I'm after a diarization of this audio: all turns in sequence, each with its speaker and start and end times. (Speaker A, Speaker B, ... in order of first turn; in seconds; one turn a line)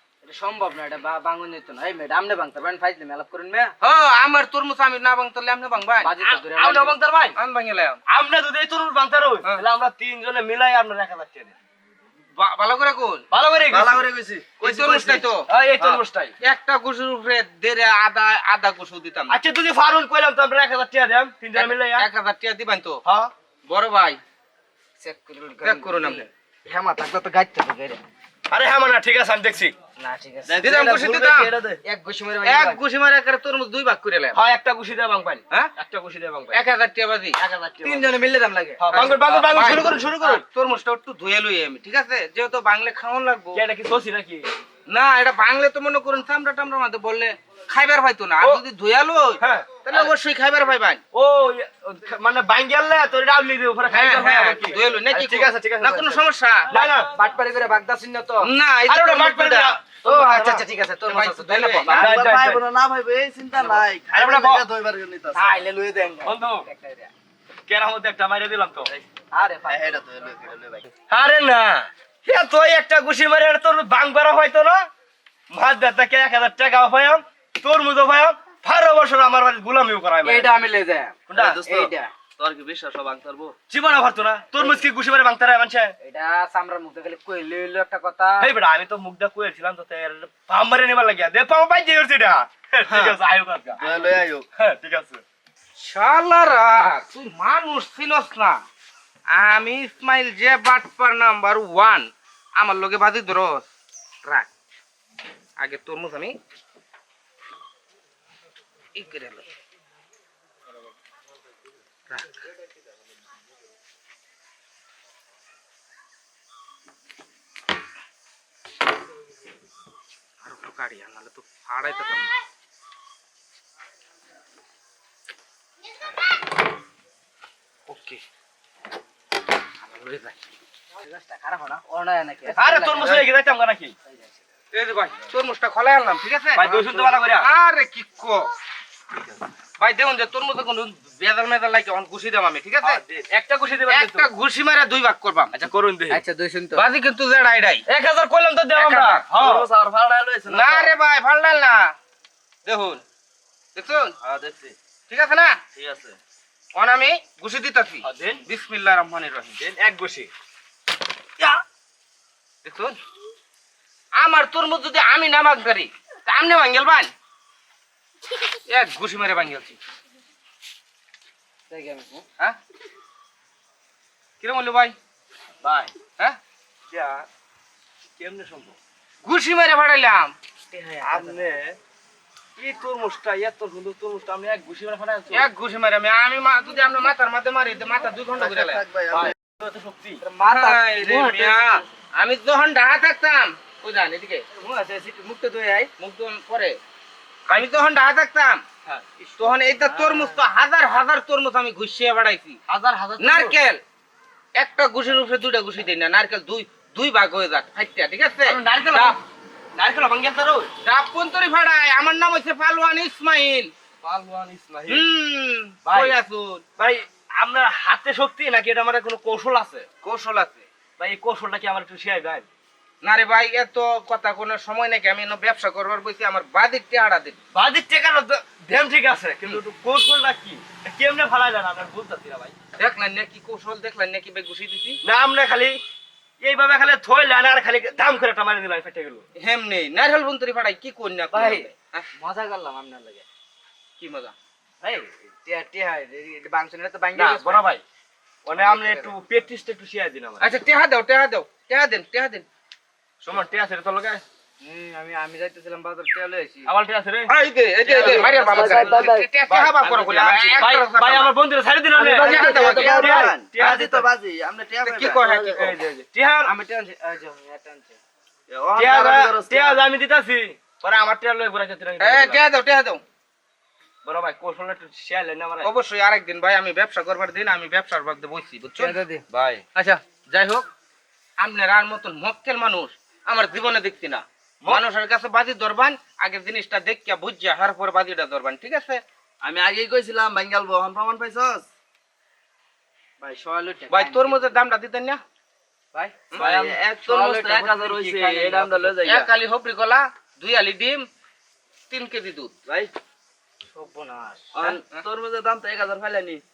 Speaker A: 0.2-3.7
Speaker B: 3.8-6.2
Speaker A: 6.0-7.0
Speaker C: 6.5-7.4
Speaker B: 7.4-8.0
Speaker C: 8.1-11.6
Speaker B: 12.4-13.3
Speaker C: 13.3-14.1
Speaker D: 13.7-14.6
Speaker C: 14.6-16.4
Speaker B: 14.6-19.4
Speaker C: 19.3-22.1
Speaker B: 21.5-23.0
Speaker C: 23.1-23.3
Speaker B: 23.7-24.2
Speaker A: 25.0-28.0
Speaker B: 25.6-26.3
Speaker C: 28.5-29.8
Speaker A: 30.0-30.6
Speaker C: 30.5-31.8
Speaker B: 30.6-31.5
Speaker A: 31.8-32.8
Speaker B: 32.4-34.4
Speaker C: 34.4-36.6
Speaker B: 36.5-37.4
Speaker C: 37.4-38.1
Speaker A: 37.8-38.9
Speaker C: 38.8-40.4
Speaker B: 38.9-43.6
Speaker C: 43.5-44.5
Speaker B: 44.9-51.0
Speaker C: 49.4-50.1
Speaker C: 51.1-56.0
Speaker B: 53.9-56.7
Speaker C: 56.7-57.1
Speaker A: 56.7-58.5
Speaker B: 58.4-59.9
Speaker C: 58.9-60.5
Speaker A: 60.0-62.0
Speaker D: 60.3-60.6
Speaker B: 61.1-62.1
Speaker D: 61.9-65.6
Speaker C: 61.9-62.6
Speaker C: 63.7-64.7
Speaker A: 65.3-67.1
Speaker C: 66.2-66.7
Speaker C: 67.7-68.9
Speaker A: 69.3-70.0
Speaker D: 69.7-70.9
Speaker C: 71.1-74.8
Speaker C: 75.5-80.5
Speaker A: 80.2-82.1
Speaker C: 81.3-81.9
Speaker D: 81.4-83.5
Speaker C: 83.6-85.9
Speaker A: 86.0-88.5
Speaker C: 88.4-95.2
Speaker D: 92.9-93.2
Speaker D: 93.8-94.5
Speaker B: 95.8-98.6
Speaker B: 99.3-103.7
Speaker B: 105.6-106.3
Speaker B: 109.0-109.5
Speaker B: 112.1-112.3
Speaker B: 120.4-122.4
Speaker B: 127.9-128.2
Speaker B: 129.8-130.3
Speaker A: 131.0-133.3
Speaker C: 132.5-134.0
Speaker A: 134.1-134.4
Speaker B: 134.7-138.5
Speaker C: 136.6-137.5
Speaker A: 136.8-137.1
Speaker B: 139.8-143.0
Speaker C: 142.8-144.3
Speaker B: 143.9-145.6
Speaker C: 145.5-146.2
Speaker A: 146.1-146.8
Speaker B: 146.7-147.8
Speaker C: 147.9-150.9
Speaker B: 148.8-149.4
Speaker B: 150.5-151.9
Speaker B: 152.7-153.0
Speaker B: 153.8-154.1
Speaker C: 154.2-154.8
Speaker B: 155.1-155.6
Speaker C: 155.8-156.2
Speaker B: 156.8-159.6
Speaker C: 158.0-158.4
Speaker C: 159.6-160.3
Speaker B: 162.7-163.0
Speaker B: 164.2-167.1
Speaker B: 168.7-169.8
Speaker A: 171.7-172.3
Speaker B: 174.4-174.9
Speaker C: 175.6-175.9
Speaker C: 176.9-177.3
Speaker C: 178.2-178.8
Speaker B: 179.2-180.3
Speaker A: 180.7-181.4
Speaker C: 181.0-181.8
Speaker C: 182.6-185.5
Speaker B: 185.3-188.8
Speaker D: 188.4-189.3
Speaker C: 189.1-190.2
Speaker A: 190.2-191.9
Speaker B: 190.5-194.4
Speaker A: 194.5-195.9
Speaker B: 196.0-196.8
Speaker B: 197.5-198.6
Speaker B: 199.4-202.6
Speaker A: 199.7-200.4
Speaker C: 202.7-203.5
Speaker B: 203.2-203.8
Speaker B: 204.6-209.2
Speaker C: 208.4-209.2
Speaker C: 209.8-210.7
Speaker B: 210.8-213.7
Speaker C: 214.0-215.1
Speaker B: 214.9-216.6
Speaker C: 215.8-216.2
Speaker C: 216.8-219.9
Speaker B: 220.0-220.7
Speaker C: 221.0-222.5
Speaker B: 223.0-227.4
Speaker C: 227.5-232.6
Speaker B: 232.8-235.0
Speaker C: 235.0-235.8
Speaker C: 236.4-239.2
Speaker B: 239.4-242.1
Speaker A: 241.3-243.3
Speaker B: 244.0-244.3
Speaker A: 244.8-247.7
Speaker C: 247.2-247.8
Speaker C: 248.4-250.5
Speaker A: 248.5-249.1
Speaker B: 250.4-252.5
Speaker C: 253.2-254.2
Speaker A: 254.6-256.7
Speaker C: 256.7-257.3
Speaker B: 257.3-261.4
Speaker A: 257.9-259.3
Speaker D: 257.9-259.2
Speaker C: 259.5-264.1
Speaker A: 260.2-260.7
Speaker D: 261.9-265.8
Speaker B: 262.1-263.3
Speaker B: 264.9-265.7
Speaker C: 265.5-266.5
Speaker A: 266.4-268.0
Speaker D: 268.5-269.8
Speaker C: 268.8-272.4
Speaker B: 272.0-273.0
Speaker C: 274.0-275.7
Speaker B: 275.6-279.0
Speaker A: 278.8-279.2
Speaker C: 279.3-279.6
Speaker B: 279.8-280.7
Speaker B: 281.4-289.0
Speaker D: 289.4-291.7
Speaker A: 293.2-294.6
Speaker B: 293.9-295.2
Speaker A: 295.9-299.2
Speaker C: 296.3-299.3
Speaker D: 296.4-297.6
Speaker B: 299.0-301.1
Speaker B: 301.9-302.5
Speaker A: 303.7-304.8
Speaker D: 304.6-306.4